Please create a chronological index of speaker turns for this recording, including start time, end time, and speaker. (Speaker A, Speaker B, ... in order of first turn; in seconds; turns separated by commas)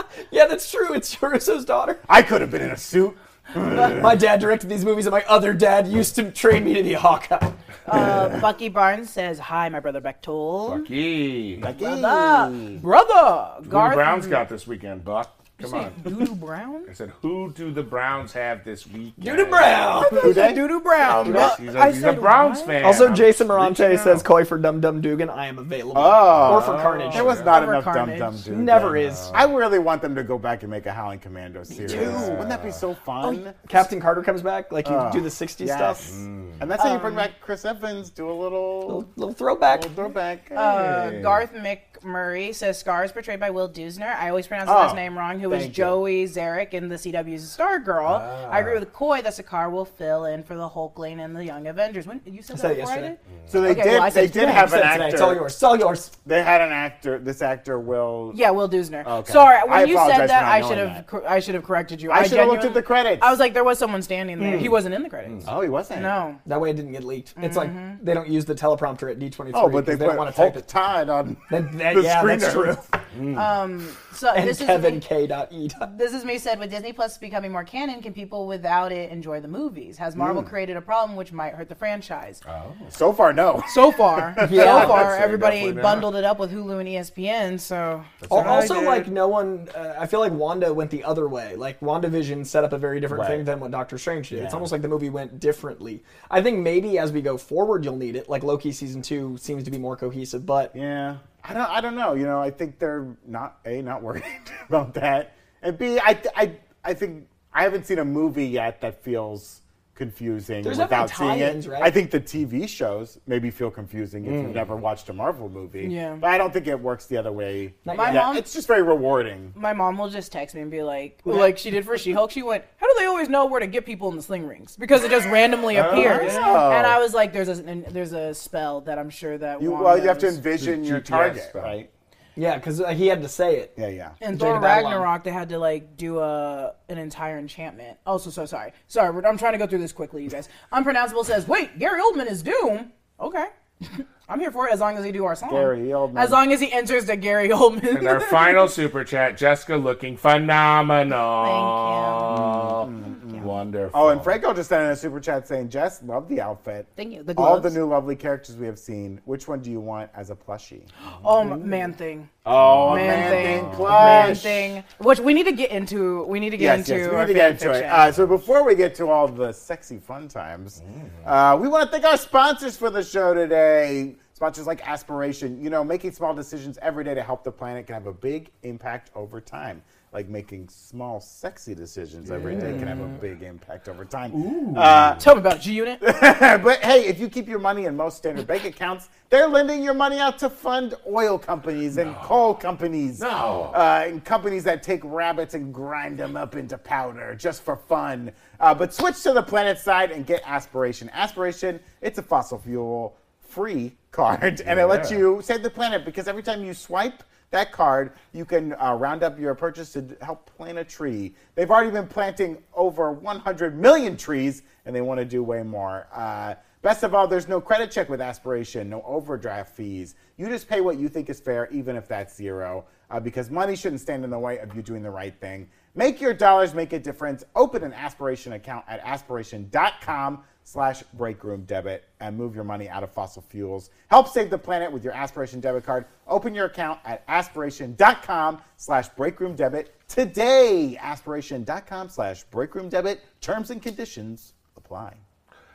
Speaker A: 0.3-2.0, Speaker B: 2.1-4.2, Speaker A: 3.9-7.6, Speaker C: 7.8-10.9, Speaker D: 10.7-11.7, Speaker B: 11.6-12.8, Speaker C: 11.7-14.4, Speaker D: 13.6-16.1, Speaker C: 15.6-16.9, Speaker D: 16.9-19.9, Speaker A: 19.2-20.5, Speaker C: 19.9-23.0, Speaker B: 20.1-20.6, Speaker D: 21.1-24.2, Speaker B: 21.2-21.5, Speaker A: 22.8-27.4, Speaker B: 25.9-33.6, Speaker D: 26.3-27.5, Speaker C: 27.2-28.4, Speaker A: 28.5-29.4, Speaker D: 29.0-29.4, Speaker A: 31.7-32.5, Speaker D: 31.9-32.8, Speaker A: 33.2-36.1, Speaker B: 34.8-39.1, Speaker D: 36.1-36.6, Speaker C: 36.8-37.3, Speaker A: 38.9-39.9, Speaker B: 39.7-40.9, Speaker C: 40.5-54.8, Speaker D: 40.6-41.4, Speaker B: 44.6-46.0, Speaker D: 48.0-48.8, Speaker A: 52.5-53.1, Speaker B: 53.5-55.5, Speaker A: 54.3-56.1, Speaker B: 56.2-58.4, Speaker C: 58.3-66.4, Speaker B: 59.0-61.0, Speaker B: 62.1-63.4, Speaker D: 64.4-65.5, Speaker B: 65.4-66.2, Speaker A: 66.4-70.6, Speaker C: 67.4-68.0, Speaker B: 69.5-72.9, Speaker A: 71.5-72.8, Speaker D: 73.1-73.5, Speaker C: 73.3-75.0, Speaker A: 74.3-75.9, Speaker C: 75.8-82.4, Speaker B: 80.2-80.5, Speaker D: 82.5-82.9, Speaker B: 82.9-84.8, Speaker C: 83.7-89.1, Speaker A: 84.4-85.1, Speaker D: 84.5-86.1, Speaker B: 88.2-88.8, Speaker A: 88.3-100.7, Speaker B: 93.1-93.5, Speaker B: 94.3-94.7, Speaker B: 100.7-119.5, Speaker A: 110.6-111.9, Speaker D: 114.2-114.6, Speaker C: 115.8-116.2, Speaker A: 117.8-118.3, Speaker C: 117.9-118.4, Speaker C: 119.5-130.4, Speaker D: 125.7-126.6, Speaker B: 125.9-127.0, Speaker B: 129.6-131.9, Speaker D: 130.6-131.8, Speaker A: 132.4-133.7, Speaker B: 133.8-134.2, Speaker C: 134.2-148.7, Speaker A: 134.3-135.1, Speaker B: 145.4-146.4, Speaker D: 147.9-154.3, Speaker C: 151.4-152.4, Speaker B: 152.3-160.9, Speaker C: 157.0-157.8, Speaker C: 161.0-162.3, Speaker B: 162.4-164.7, Speaker D: 162.6-164.3, Speaker C: 162.9-168.1, Speaker B: 166.6-185.2, Speaker D: 170.8-171.3, Speaker D: 182.3-183.2, Speaker D: 184.3-185.2, Speaker C: 185.2-186.0, Speaker B: 186.0-245.2, Speaker D: 193.2-193.8, Speaker D: 204.6-205.2